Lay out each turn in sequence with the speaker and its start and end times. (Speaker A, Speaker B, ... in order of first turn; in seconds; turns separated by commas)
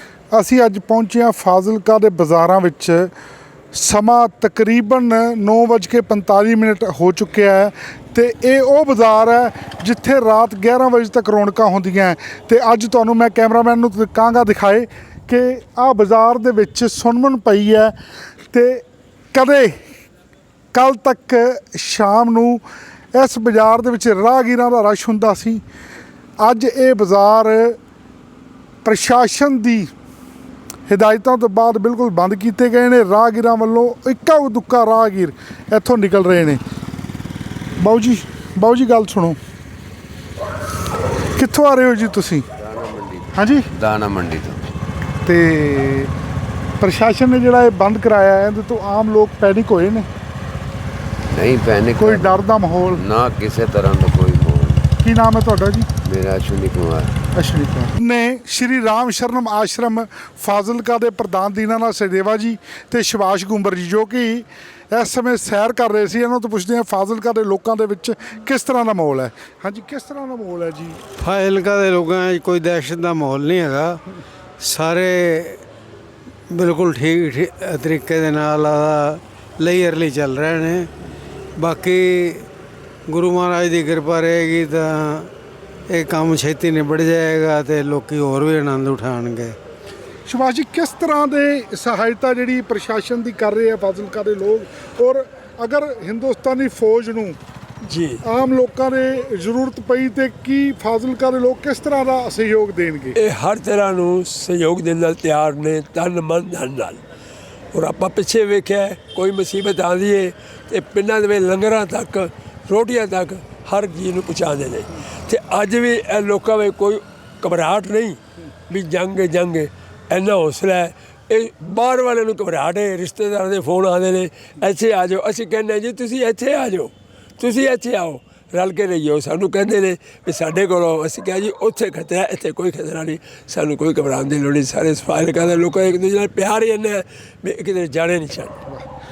Speaker A: 0.3-3.1, Speaker A: 3.7-17.9, Speaker A: 18.5-19.8, Speaker A: 20.7-22.6, Speaker A: 23.1-25.6, Speaker A: 26.4-27.8, Speaker A: 28.8-29.9, Speaker A: 30.9-36.6, Speaker A: 37.8-39.4, Speaker A: 41.3-42.5, Speaker B: 42.6-44.6, Speaker A: 43.3-43.7, Speaker A: 45.2-46.1, Speaker A: 46.8-50.1, Speaker B: 51.3-52.4, Speaker A: 52.0-53.0, Speaker B: 53.0-54.9, Speaker A: 55.0-55.9, Speaker B: 56.0-57.1, Speaker A: 57.3-71.0, Speaker C: 71.2-74.0, Speaker C: 74.6-75.6, Speaker C: 76.5-80.9, Speaker C: 81.6-82.5, Speaker C: 83.1-85.3, Speaker C: 85.9-89.6, Speaker A: 90.2-97.4, Speaker D: 97.8-98.2, Speaker A: 98.2-103.2, Speaker D: 103.2-107.0, Speaker D: 107.7-138.6